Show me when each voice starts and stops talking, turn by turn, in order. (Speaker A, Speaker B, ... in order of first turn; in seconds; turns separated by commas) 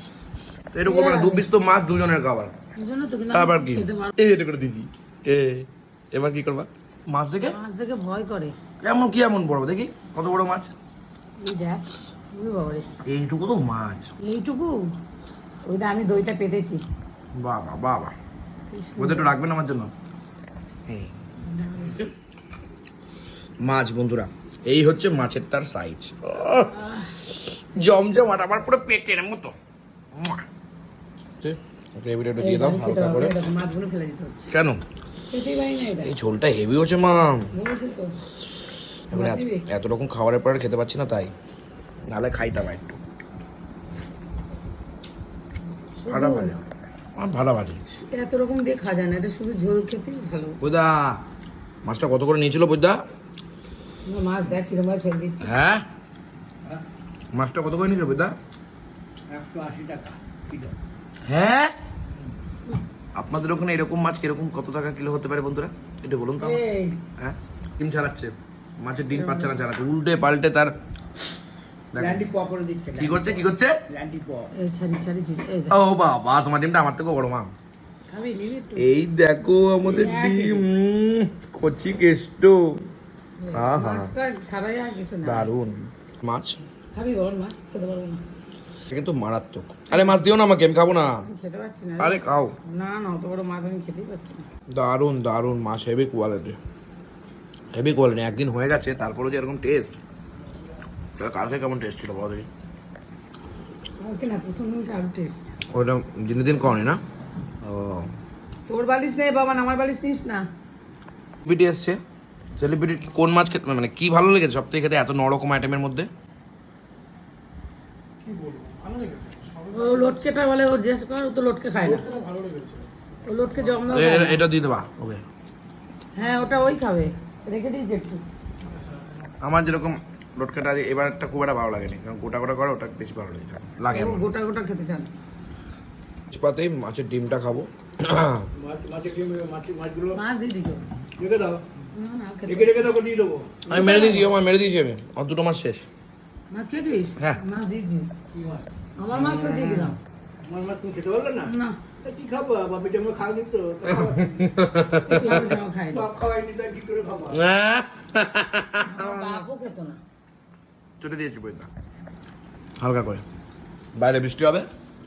Speaker A: 0.7-2.5, Speaker B: 0.8-1.4, Speaker B: 2.7-4.1, Speaker A: 3.3-7.6, Speaker B: 7.5-8.6, Speaker A: 8.8-10.7, Speaker B: 11.4-12.9, Speaker A: 13.0-14.1, Speaker B: 14.2-14.9, Speaker B: 15.7-16.8, Speaker A: 17.4-18.1, Speaker B: 18.7-19.4, Speaker A: 19.0-19.9, Speaker A: 20.9-21.1, Speaker B: 21.4-21.9, Speaker A: 21.8-22.1, Speaker A: 23.6-29.5, Speaker B: 26.7-27.1, Speaker A: 30.1-30.4, Speaker A: 31.4-33.3, Speaker B: 32.4-34.5, Speaker A: 34.5-34.8, Speaker B: 35.3-36.1, Speaker A: 36.0-37.5, Speaker B: 37.5-38.1, Speaker A: 39.1-41.3, Speaker B: 39.1-39.6, Speaker A: 42.1-43.0, Speaker B: 46.0-46.5, Speaker A: 46.1-46.6, Speaker A: 47.1-47.8, Speaker B: 47.9-50.6, Speaker A: 50.6-51.2, Speaker A: 51.8-53.0, Speaker B: 54.0-55.5, Speaker A: 55.4-55.8, Speaker A: 57.3-58.3, Speaker C: 59.3-60.7, Speaker A: 61.3-61.7, Speaker A: 63.1-66.6, Speaker B: 66.4-67.0, Speaker A: 67.2-70.7, Speaker B: 69.1-69.5, Speaker A: 71.9-72.3, Speaker C: 72.0-74.5, Speaker A: 73.0-73.8, Speaker B: 74.5-75.8, Speaker A: 75.7-77.5, Speaker B: 78.1-78.9, Speaker A: 78.8-82.8, Speaker B: 79.8-80.7, Speaker B: 83.4-85.5, Speaker A: 83.5-84.1, Speaker A: 85.2-86.6, Speaker B: 86.9-88.2, Speaker A: 88.9-91.2, Speaker B: 89.9-90.2, Speaker B: 91.2-94.5, Speaker A: 92.0-92.6, Speaker A: 94.7-96.6, Speaker A: 97.7-99.9, Speaker A: 101.2-102.5, Speaker B: 104.0-105.5, Speaker A: 105.7-107.0, Speaker A: 107.6-108.1, Speaker B: 108.7-110.4, Speaker A: 111.4-112.0, Speaker A: 112.6-116.1, Speaker C: 118.2-119.6, Speaker B: 119.7-122.1, Speaker C: 121.9-122.8, Speaker B: 123.2-124.4, Speaker A: 123.9-125.2, Speaker B: 126.2-128.2, Speaker A: 129.4-134.2, Speaker B: 133.9-135.1, Speaker A: 136.3-138.5, Speaker C: 138.6-140.2, Speaker B: 140.1-140.9, Speaker C: 141.2-141.6, Speaker B: 141.9-143.0, Speaker C: 142.5-143.7, Speaker B: 143.7-144.3, Speaker A: 143.7-145.9, Speaker B: 146.5-148.1, Speaker C: 148.3-148.7, Speaker B: 149.0-150.0, Speaker A: 149.1-149.9, Speaker C: 150.4-151.5, Speaker B: 151.4-151.8, Speaker C: 152.0-154.6, Speaker A: 153.9-155.6, Speaker B: 155.0-156.1, Speaker C: 155.9-157.4, Speaker A: 157.3-159.4, Speaker B: 158.8-160.0, Speaker A: 161.0-161.7, Speaker A: 162.8-163.2, Speaker A: 163.9-164.7